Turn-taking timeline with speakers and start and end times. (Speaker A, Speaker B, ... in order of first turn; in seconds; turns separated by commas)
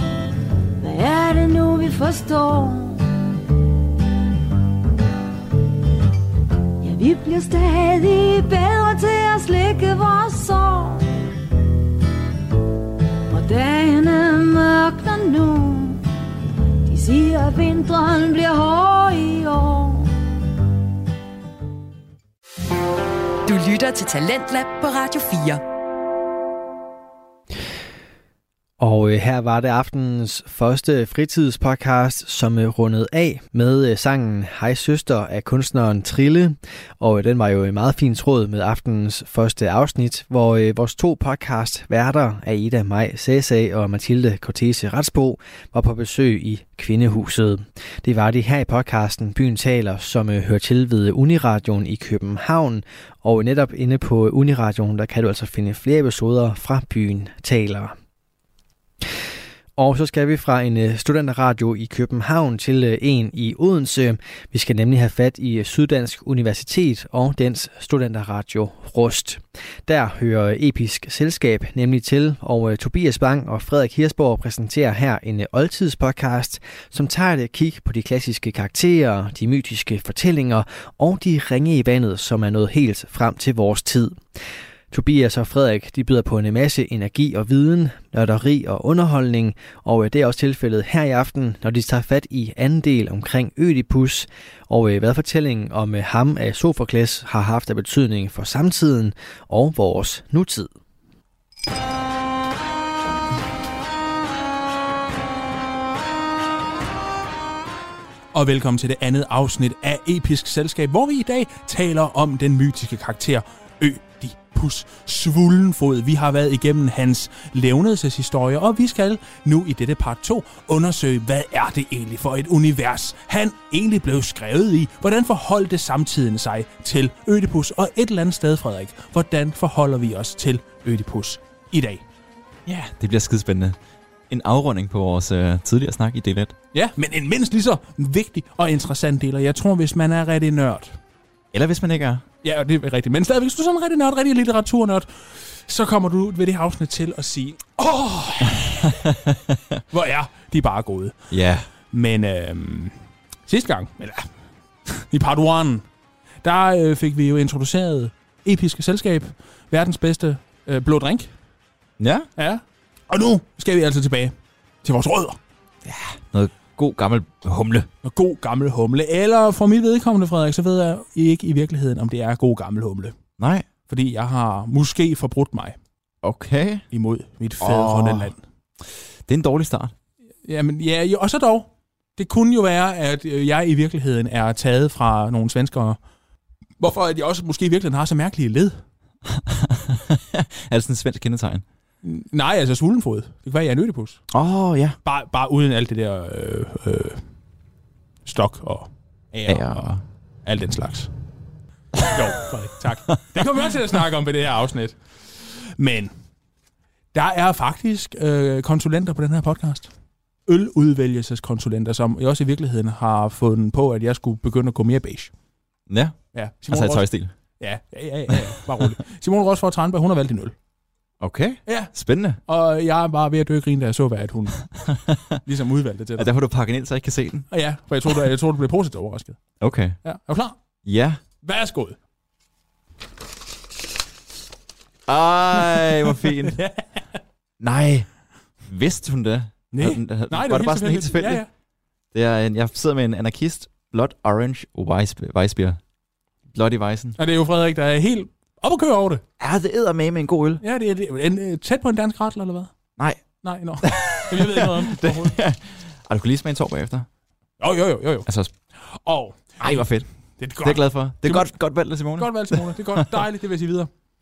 Speaker A: 0.8-3.0, Speaker A: 6.8-11.1, Speaker A: 13.3-16.0, Speaker A: 16.9-20.1, Speaker B: 23.5-25.6, Speaker C: 28.8-58.0, Speaker C: 59.8-84.4, Speaker C: 84.9-100.7, Speaker D: 108.3-132.1, Speaker E: 132.7-133.8, Speaker E: 134.3-136.6, Speaker D: 136.7-141.0, Speaker E: 141.5-142.2, Speaker D: 142.4-148.8, Speaker E: 149.3-149.8, Speaker D: 149.9-151.2, Speaker E: 151.3-151.7, Speaker D: 151.8-155.9, Speaker D: 156.4-161.4, Speaker E: 162.0-162.3, Speaker D: 162.4-165.4, Speaker E: 165.8-167.9, Speaker D: 168.0-173.2, Speaker E: 173.4-173.7, Speaker D: 173.8-175.8, Speaker E: 176.2-176.9, Speaker D: 176.9-178.4, Speaker E: 177.6-178.4, Speaker E: 179.2-179.9, Speaker D: 180.4-186.1, Speaker D: 186.8-188.9, Speaker E: 189.3-191.7, Speaker D: 192.0-194.2, Speaker E: 194.3-195.0, Speaker D: 195.0-197.3, Speaker D: 198.2-201.1, Speaker E: 199.4-200.1, Speaker D: 202.1-206.1, Speaker E: 203.1-203.4, Speaker D: 207.1-215.4, Speaker E: 215.9-218.9, Speaker D: 216.3-220.6, Speaker E: 221.2-222.4, Speaker D: 221.7-224.8, Speaker E: 224.6-225.4, Speaker D: 225.5-226.3, Speaker E: 226.2-228.1, Speaker D: 227.5-232.0, Speaker E: 229.6-231.3, Speaker E: 235.1-236.6, Speaker D: 236.3-237.2, Speaker E: 237.6-241.5, Speaker D: 239.7-241.5, Speaker E: 242.1-245.9, Speaker E: 246.4-247.2, Speaker D: 247.2-249.2, Speaker E: 249.4-250.6, Speaker D: 250.6-255.4, Speaker E: 253.0-257.1, Speaker D: 257.6-263.9, Speaker E: 258.2-258.7, Speaker E: 259.6-263.1